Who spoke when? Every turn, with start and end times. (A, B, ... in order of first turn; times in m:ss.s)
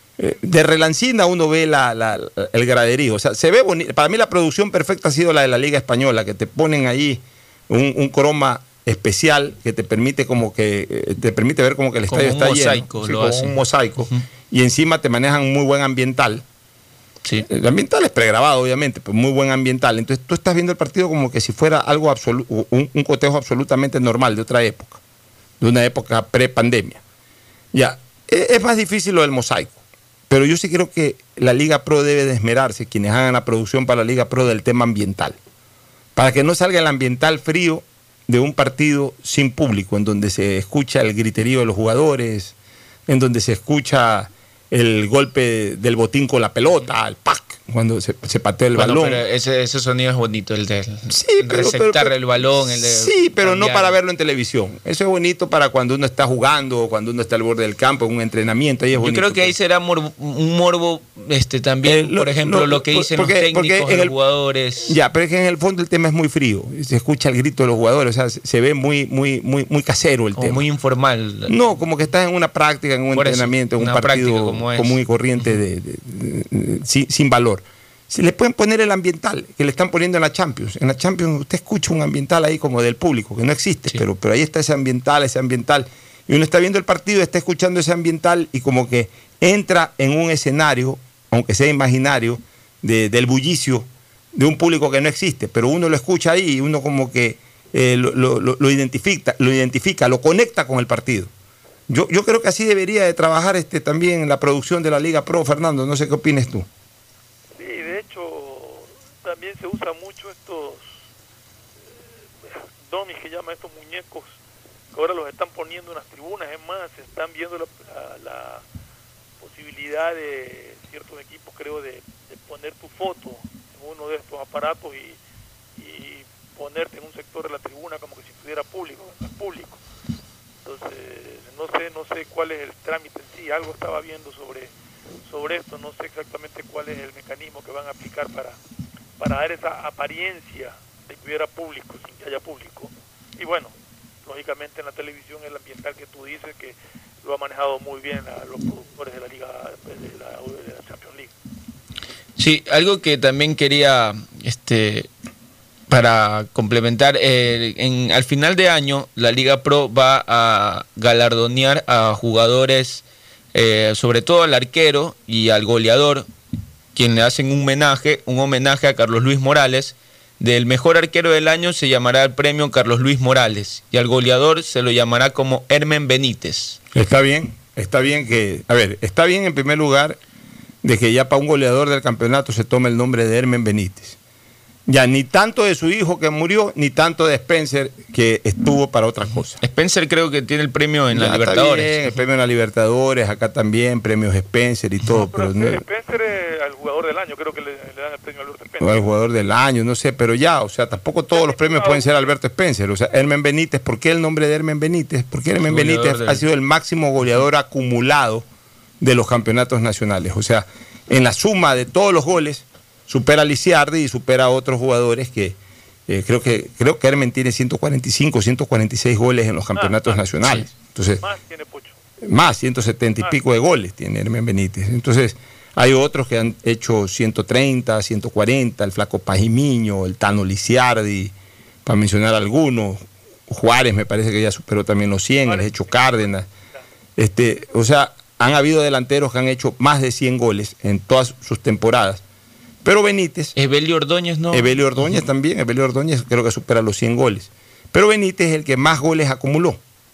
0:00.2-0:16.4 A
0:12.1-0:13.6 B
0:17.5-0:25.0 A
0:25.6-0:27.0 A
0:27.7-0:29.8 A
0:30.3-0:35.4 A
0:36.2-0:42.6 A
0:43.1-0:49.2 A
0:48.8-0:54.0 B
0:51.1-0:59.5 A
0:59.0-1:05.0 B
1:01.8-1:04.1 A
1:04.8-1:10.7 A
1:10.4-1:11.5 B
1:11.5-1:41.3 A
1:13.1-1:15.5 B
1:41.9-1:46.7 A
1:47.6-1:51.0 C
1:51.9-1:54.4 C
1:54.9-1:58.6 C
1:59.4-2:05.2 C
2:05.8-2:09.8 C
2:10.6-2:14.7 C
2:15.2-2:18.6 C
2:19.2-2:31.3 C
2:32.4-2:35.1 B
2:35.9-2:43.0 B
2:43.5-2:46.3 B
2:47.0-2:56.8 B
2:56.9-3:00.2 A
3:00.8-3:04.2 A
3:04.9-3:09.6 A
3:09.6-3:12.0 B
3:11.1-3:15.8 A
3:15.0-3:19.0 C
3:18.8-3:28.5 A
3:21.3-3:22.3 C
3:25.6-3:26.4 B
3:29.0-3:41.2 A
3:39.8-3:40.2 C
3:41.2-3:42.0 C
3:42.2-3:51.3 A
3:51.8-3:56.5 A
3:55.5-3:56.8 C
3:57.2-4:02.2 A
4:02.8-4:03.6 A
4:03.6-4:05.2 B
4:04.5-4:09.8 A